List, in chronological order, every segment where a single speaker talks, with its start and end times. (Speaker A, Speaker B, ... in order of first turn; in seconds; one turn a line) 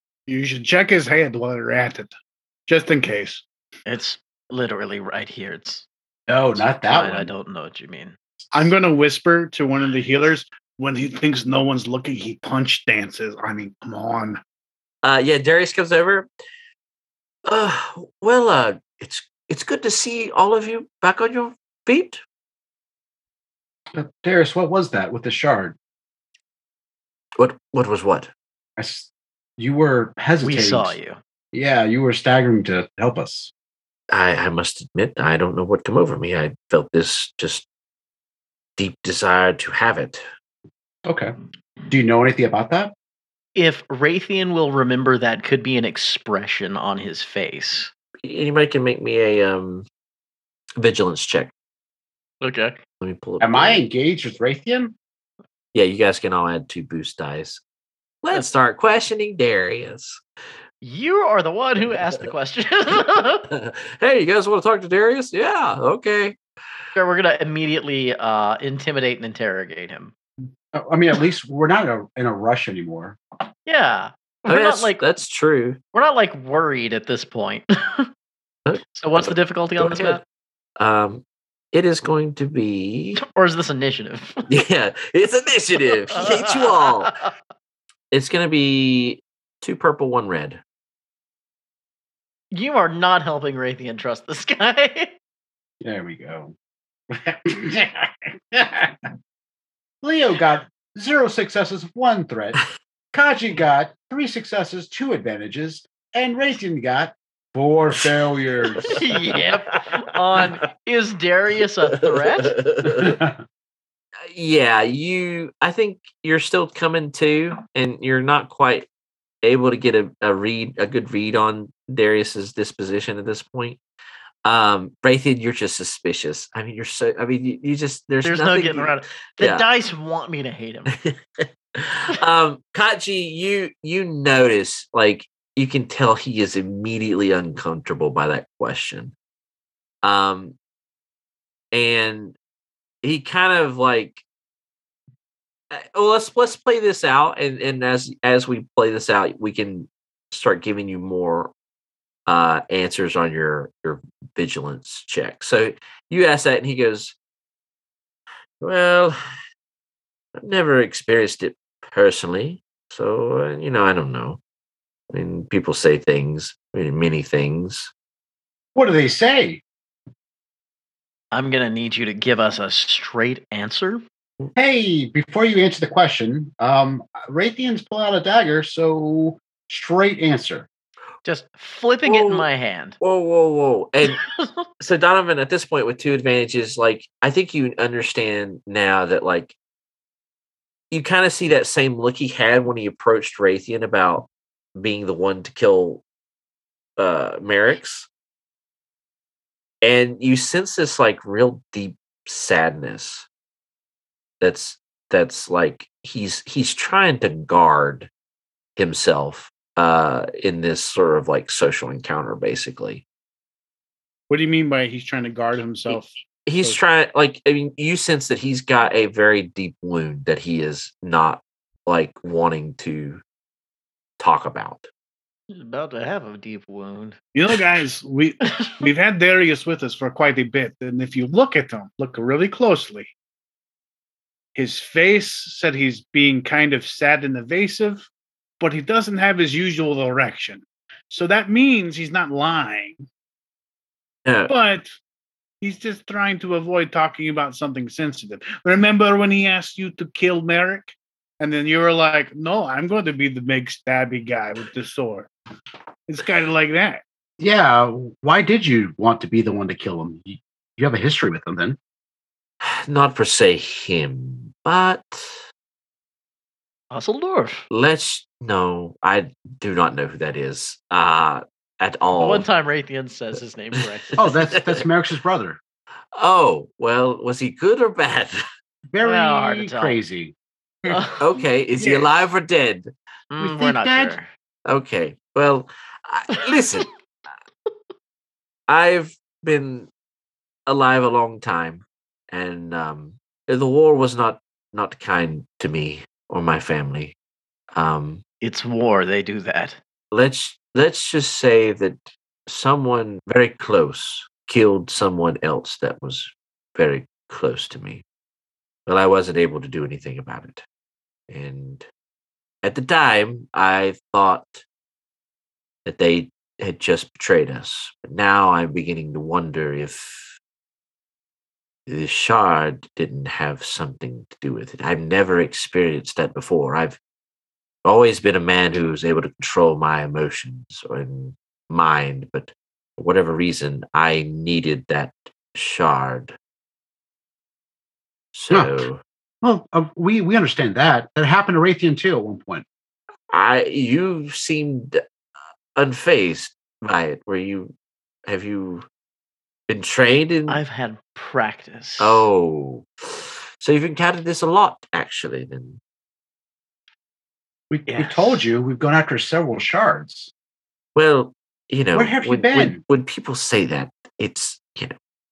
Speaker A: 0.3-2.1
Speaker A: 2.7-3.4
Speaker B: 3.9-5.8
Speaker C: 6.3-7.3
Speaker B: 6.8-8.2
Speaker A: 8.5-14.4
Speaker D: 15.0-16.3
Speaker D: 17.4-22.2
Speaker C: 23.9-25.8
Speaker D: 27.4-28.3
Speaker C: 28.8-30.9
Speaker B: 30.4-31.2
Speaker C: 31.5-33.5
Speaker D: 34.1-37.6
Speaker D: 38.8-40.2
Speaker C: 41.0-41.3
Speaker C: 41.9-42.9
Speaker B: 43.5-47.9
Speaker D: 48.2-49.9
Speaker D: 50.8-51.5
Speaker B: 52.4-52.8
Speaker D: 53.0-53.8
Speaker C: 53.4-54.9
Speaker D: 55.7-57.6
Speaker D: 58.2-60.2
Speaker B: 60.8-63.5
Speaker D: 63.5-66.4
Speaker B: 67.0-70.1
Speaker C: 70.7-73.2
Speaker B: 73.7-75.0
Speaker D: 74.5-75.8
Speaker B: 75.9-78.1
Speaker D: 78.7-80.2
Speaker B: 78.9-80.2
Speaker D: 80.8-83.2
Speaker B: 83.2-84.5
Speaker D: 84.5-87.2
Speaker B: 86.1-87.3
Speaker D: 88.1-90.6
Speaker B: 92.5-95.1
Speaker C: 95.8-96.5
Speaker C: 97.1-99.1
Speaker C: 100.0-102.6
Speaker C: 103.1-109.0
Speaker B: 108.8-112.6
Speaker D: 108.9-109.5
Speaker D: 111.9-113.2
Speaker C: 112.8-113.4
Speaker D: 114.3-118.8
Speaker D: 119.4-123.8
Speaker D: 124.4-129.7
Speaker B: 128.2-130.9
Speaker D: 130.9-139.1
Speaker D: 140.0-140.6
Speaker D: 141.7-142.3
Speaker D: 143.0-144.2
Speaker D: 145.7-151.5
Speaker D: 152.3-157.1
Speaker D: 158.6-159.2
Speaker D: 160.4-164.4
Speaker D: 165.1-167.9
Speaker C: 168.7-169.6
Speaker B: 171.3-174.0
Speaker C: 174.6-180.7
Speaker B: 181.2-183.0
Speaker D: 182.0-182.5
Speaker D: 183.0-184.2
Speaker B: 184.1-184.6
Speaker D: 184.8-189.5
Speaker D: 190.9-196.0
Speaker D: 197.0-198.1
Speaker D: 199.8-203.3
Speaker D: 204.4-208.1
Speaker D: 208.8-213.0
Speaker A: 214.3-216.8
Speaker D: 215.9-223.2
Speaker D: 224.2-224.9
Speaker B: 225.5-227.2
Speaker A: 227.3-233.1
Speaker A: 234.5-238.1
Speaker A: 238.6-243.0
Speaker D: 244.2-244.5
Speaker A: 244.5-244.9
Speaker A: 245.6-255.3
Speaker A: 256.1-257.0
Speaker C: 257.4-261.8
Speaker D: 262.6-265.4
Speaker B: 266.9-267.6
Speaker D: 267.7-272.5
Speaker B: 272.2-274.6
Speaker C: 274.1-275.6
Speaker D: 274.5-274.8
Speaker D: 276.1-278.4
Speaker C: 278.9-280.3
Speaker B: 279.0-280.0
Speaker B: 280.9-281.2
Speaker D: 281.2-282.9
Speaker A: 281.8-282.1
Speaker B: 283.3-284.3
Speaker C: 283.4-284.1
Speaker D: 284.6-286.9
Speaker D: 288.7-289.9
Speaker D: 290.7-297.1
Speaker D: 297.7-298.2
Speaker B: 298.4-299.8
Speaker D: 300.1-308.0
Speaker D: 308.9-310.6
Speaker D: 311.3-311.9
Speaker D: 312.6-314.6
Speaker D: 315.9-320.4
Speaker D: 321.9-327.0
Speaker D: 327.8-336.3
Speaker D: 338.3-339.0
Speaker C: 338.5-338.9
Speaker C: 339.4-342.6
Speaker D: 343.3-345.0
Speaker D: 345.7-347.7
Speaker D: 348.2-348.9
Speaker D: 349.7-350.6
Speaker B: 350.5-352.3
Speaker D: 352.0-355.8
Speaker C: 357.7-360.3
Speaker B: 357.9-358.4
Speaker D: 360.9-364.9
Speaker C: 361.9-362.8